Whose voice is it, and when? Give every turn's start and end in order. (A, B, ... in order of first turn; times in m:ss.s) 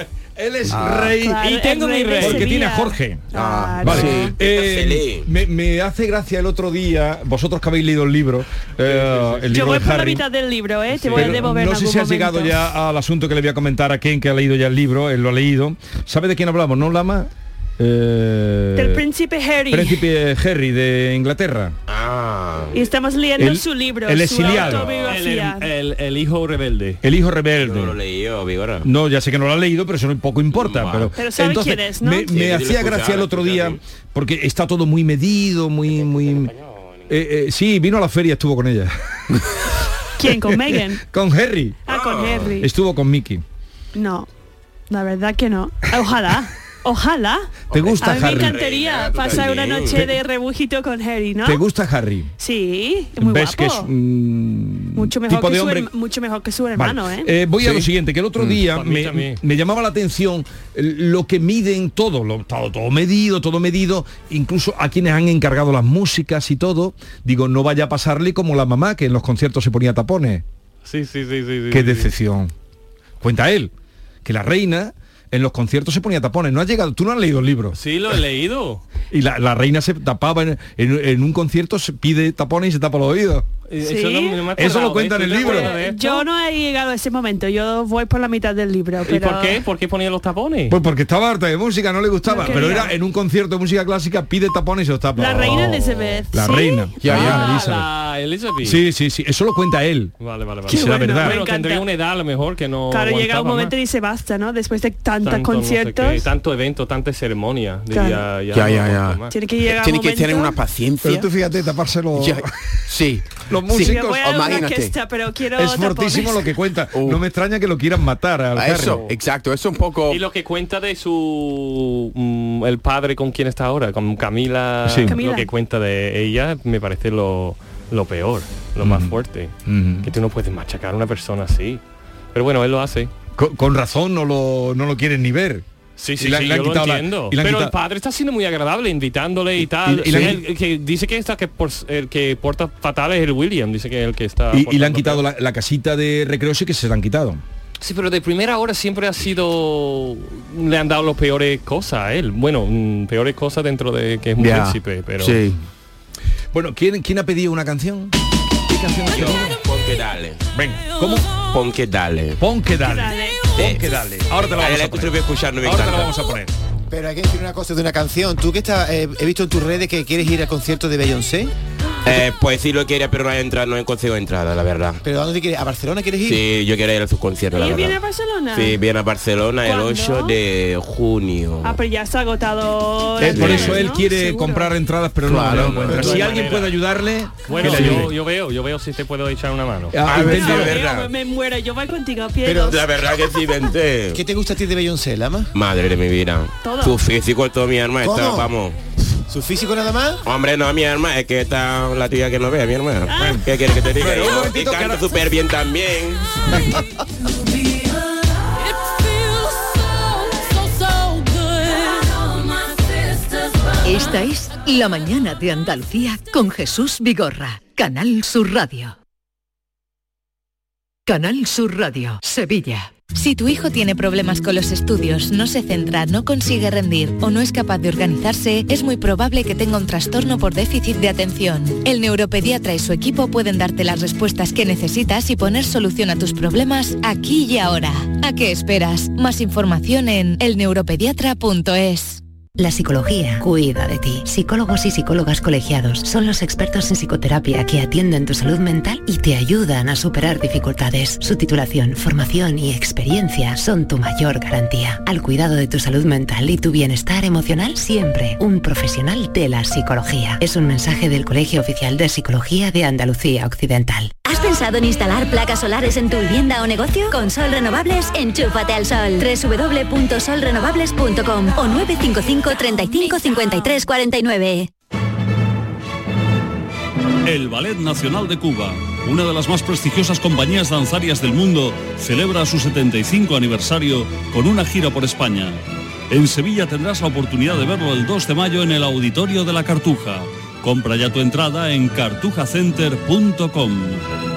0:00.4-0:01.5 A
0:00.7-0:01.1 B
0:01.2-0:04.3 C
0:01.2-0:02.5 D
0:02.2-0:03.2 A
0:03.3-0:04.3 B
0:03.8-0:10.2 A
0:04.4-0:05.2 E
0:08.8-0:10.0 D
0:09.5-0:12.6 C
0:10.9-0:11.5 D
0:11.1-0:19.0 A
0:18.7-0:20.1 C
0:19.7-0:21.8 A
0:21.9-0:22.8 E
0:22.7-0:25.7 C
0:23.4-0:25.0 A
0:24.5-0:27.0 D
0:27.0-0:28.0 A
0:27.6-0:28.8 E
0:28.8-0:36.5 A
0:30.5-0:31.1 E
0:31.1-0:32.4 C
0:32.3-0:33.8 E
0:36.0-0:36.8 E
0:37.1-0:39.4 A
0:40.2-0:41.0 C
0:40.2-0:41.8 A
0:41.8-0:42.7 C
0:41.9-0:42.5 E
0:42.6-0:43.4 A
0:43.9-0:44.3 C
0:44.9-0:51.6 C
0:47.7-0:48.6 A
0:47.7-0:50.1 E
0:51.4-0:52.3 A
0:52.4-0:53.9 C
0:53.2-0:55.9 A
0:54.9-0:57.3 C
0:56.7-1:10.4 A
0:57.6-0:59.4 D
1:10.8-1:12.1 D
1:11.7-1:12.5 A
1:13.2-1:13.7 A
1:14.2-1:17.8 A
1:17.8-1:18.8 D
1:19.1-1:23.4 A
1:23.7-1:26.3 D
1:23.8-1:24.4 C
1:24.6-1:25.7 A
1:25.4-1:29.6 C
1:29.0-1:30.8 D
1:30.7-1:35.8 A
1:32.2-1:33.0 C
1:32.4-1:32.8 D
1:35.2-1:37.5 C
1:35.2-1:36.2 D
1:36.3-1:37.9 A
1:37.0-1:37.3 B
1:37.1-1:38.8 D
1:38.6-1:40.1 A
1:40.2-1:43.7 D
1:40.7-1:41.4 A
1:40.7-1:41.9 C
1:42.9-1:46.2 C
1:45.2-1:49.3 D
1:47.9-1:48.3 C
1:48.5-1:51.3 B
1:49.3-1:50.6 C
1:51.0-1:52.5 A
1:52.2-1:54.9 B
1:53.5-1:54.4 A
1:53.8-1:56.5 C
1:55.5-1:59.0 A
1:56.9-1:57.2 B
1:58.5-2:00.2 B
1:58.8-1:59.1 D
2:00.1-2:11.8 D
2:04.8-2:05.2 A
2:05.0-2:05.5 C
2:08.8-2:10.1 A
2:12.3-2:13.1 D
2:13.4-2:15.6 A
2:16.0-2:25.2 D
2:16.2-2:17.7 A
2:19.6-2:20.4 A
2:24.5-2:27.4 A
2:27.8-2:35.4 D
2:34.4-2:35.6 B
2:36.5-2:38.1 A
2:38.7-2:39.6 A
2:39.1-2:40.4 E
2:40.5-2:41.3 A
2:41.5-2:42.4 E
2:42.4-2:46.5 A
2:42.7-2:43.6 C
2:43.6-2:43.8 E
2:44.5-2:46.2 E
2:46.9-2:51.5 F
2:52.0-2:55.0 E
2:55.0-2:56.4 F
2:56.2-2:58.0 E
2:57.5-2:58.8 C
2:58.5-3:01.8 E
2:59.6-3:00.4 C
3:01.6-3:04.7 C
3:03.2-3:08.1 A
3:03.2-3:03.7 E
3:05.3-3:06.2 E
3:05.7-3:06.8 D
3:07.5-3:10.0 D
3:07.5-3:07.8 C
3:09.9-3:10.8 A
3:10.0-3:11.1 E
3:10.1-3:12.8 C
3:12.4-3:12.8 F
3:12.7-3:14.2 E
3:14.1-3:15.5 F
3:15.5-3:18.8 E
3:16.6-3:17.0 C
3:18.0-3:18.5 F
3:19.3-3:20.2 F
3:20.2-3:26.2 E
3:23.1-3:23.4 C
3:23.2-3:23.4 A
3:23.9-3:25.2 A
3:33.8-3:38.9 G
3:41.0-3:43.1 G
3:43.1-4:02.2 H
4:02.6-4:24.1 I
4:24.2-4:34.7 J
4:37.2-4:54.0 K